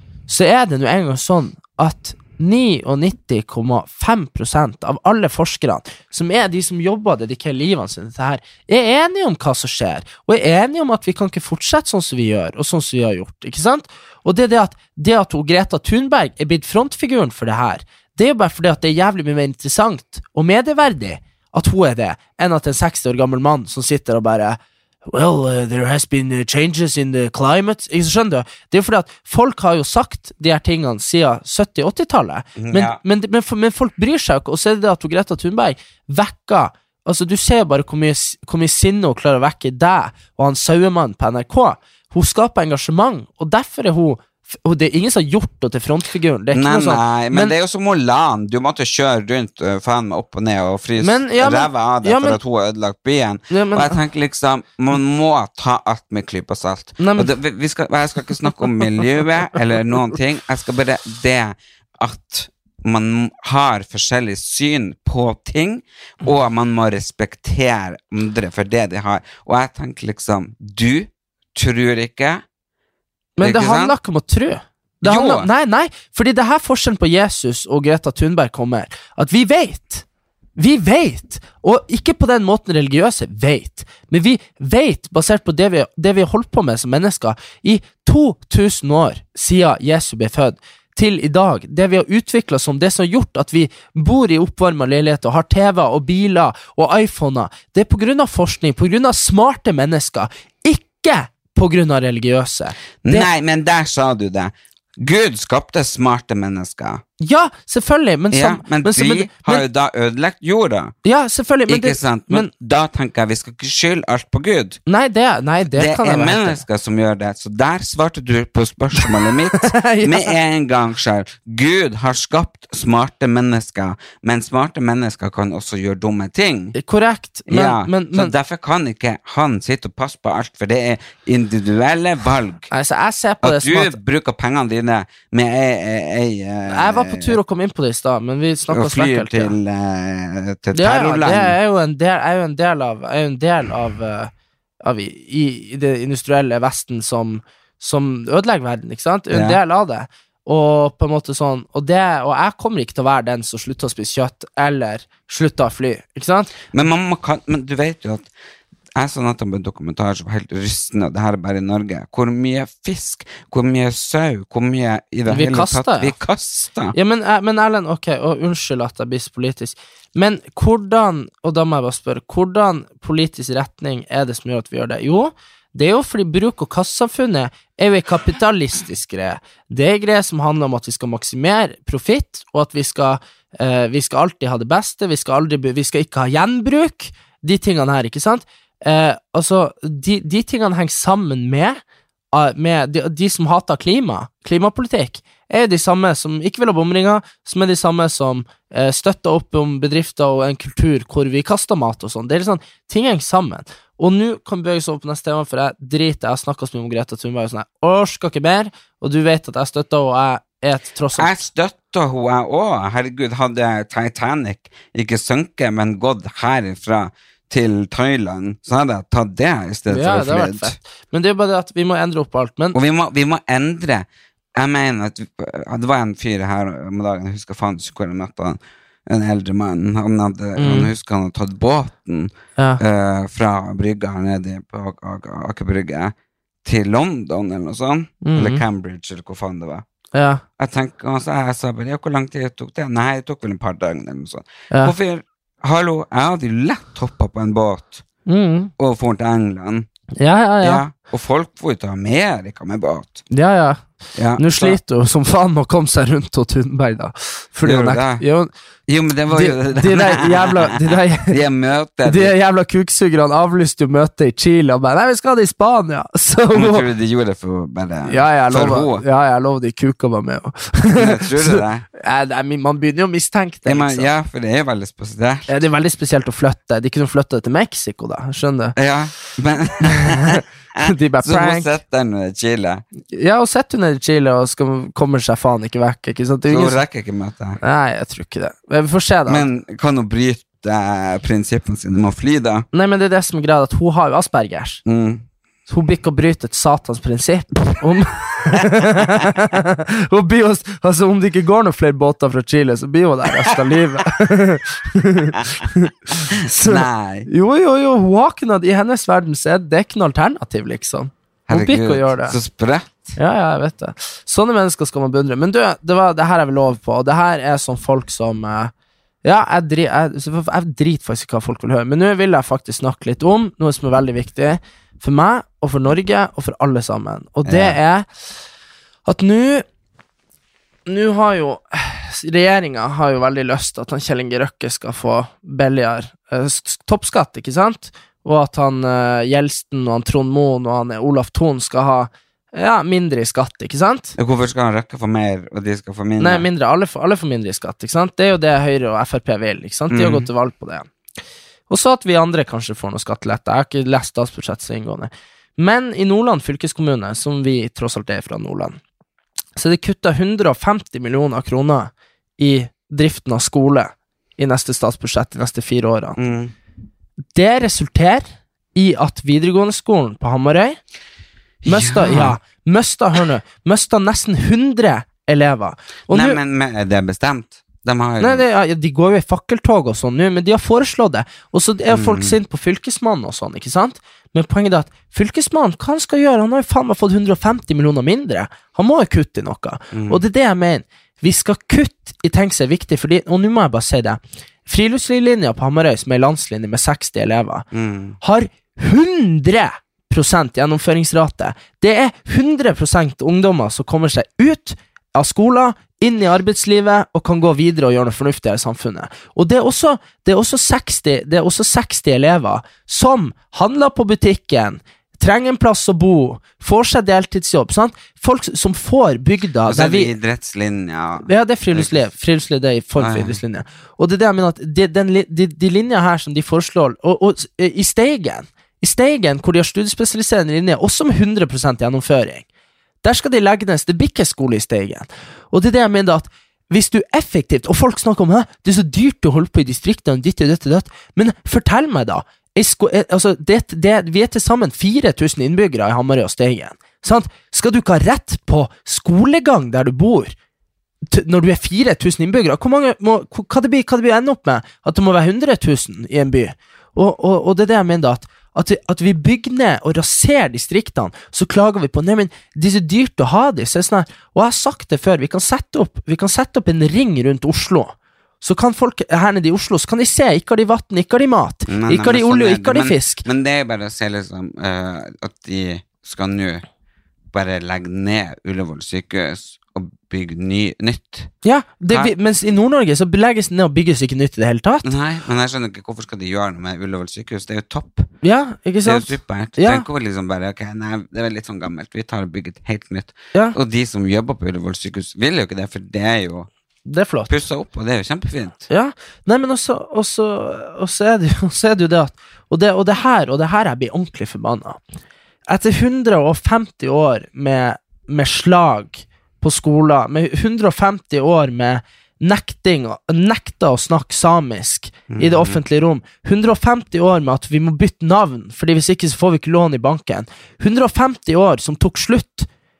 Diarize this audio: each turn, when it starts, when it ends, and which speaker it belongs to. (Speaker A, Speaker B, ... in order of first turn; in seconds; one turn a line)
Speaker A: 0.3-47.5
Speaker B: 32.6-33.0
Speaker B: 46.5-72.4
Speaker A: 51.0-52.4
Speaker A: 53.5-54.0
Speaker A: 57.0-57.3
Speaker A: 73.4-80.0
Speaker B: 73.4-74.0
Speaker B: 75.0-75.5
Speaker A: 80.6-103.3
Speaker B: 103.0-107.0
Speaker A: 107.2-109.6
Speaker B: 108.3-110.9
Speaker A: 111.0-112.5
Speaker B: 111.7-114.8
Speaker A: 114.9-116.6
Speaker B: 115.7-126.8
Speaker A: 119.5-120.3
Speaker A: 126.8-128.3
Speaker B: 127.5-132.7
Speaker A: 132.7-134.0
Speaker B: 133.4-137.4
Speaker A: 136.7-139.5
Speaker B: 138.7-141.6
Speaker A: 140.7-144.3
Speaker A: 144.8-156.5
Speaker B: 149.3-149.6
Speaker B: 156.7-158.3
Speaker B: 158.9-166.9
Speaker A: 165.3-166.2
Speaker A: 166.9-191.8
Speaker A: 192.3-211.4
Speaker B: 211.2-220.8
Speaker A: 219.9-222.8
Speaker B: 222.7-236.1
Speaker A: 230.6-230.9
Speaker A: 232.6-232.8
Speaker B: 236.6-239.8
Speaker A: 238.2-238.6
Speaker A: 240.1-240.4
Speaker B: 240.6-248.0
Speaker A: 248.3-248.7
Speaker B: 248.8-249.9
Speaker A: 250.2-250.8
Speaker B: 250.6-253.2
Speaker A: 253.3-253.8
Speaker B: 254.2-254.8
Speaker A: 254.4-258.5
Speaker B: 257.6-258.2
Speaker B: 258.9-262.3
Speaker A: 259.3-261.4
Speaker A: 262.0-266.9
Speaker B: 266.5-269.0
Speaker A: 268.1-274.1
Speaker B: 270.9-271.9
Speaker B: 273.6-275.5
Speaker A: 275.5-278.8
Speaker B: 278.8-282.8
Speaker A: 279.8-281.7
Speaker A: 283.1-286.8
Speaker B: 286.5-287.6
Speaker A: 287.6-289.5
Speaker B: 289.3-292.6
Speaker A: 292.7-294.8
Speaker B: 294.8-295.2
Speaker A: 295.7-312.4
Speaker B: 298.5-299.3
Speaker B: 305.3-305.6
Speaker B: 306.2-307.3
Speaker B: 311.5-313.1
Speaker A: 313.2-318.7
Speaker A: 319.2-328.1
Speaker B: 327.4-327.8
Speaker A: 329.1-329.6
Speaker A: 330.9-344.1
Speaker B: 344.2-346.4
Speaker A: 346.2-350.9
Speaker B: 349.9-350.3
Speaker A: 351.7-358.8
Speaker A: 359.6-366.2
Speaker B: 366.2-366.5
Speaker A: 367.3-370.8
Speaker B: 371.6-372.4
Speaker A: 371.6-376.4
Speaker B: 376.1-378.4
Speaker A: 378.2-397.6
Speaker B: 381.9-382.4
Speaker B: 389.9-390.2
Speaker B: 397.7-398.2
Speaker A: 398.2-420.1
Speaker B: 419.6-422.0
Speaker A: 421.3-432.4
Speaker B: 423.0-423.4
Speaker A: 433.0-450.3
Speaker A: 451.1-473.2
Speaker B: 471.7-476.6
Speaker B: 477.3-481.3
Speaker A: 481.4-484.9
Speaker B: 484.8-488.1
Speaker A: 488.2-489.8
Speaker B: 488.8-496.5
Speaker A: 496.9-497.3
Speaker B: 497.3-498.6
Speaker A: 498.7-504.8
Speaker A: 505.5-522.5
Speaker B: 515.1-515.6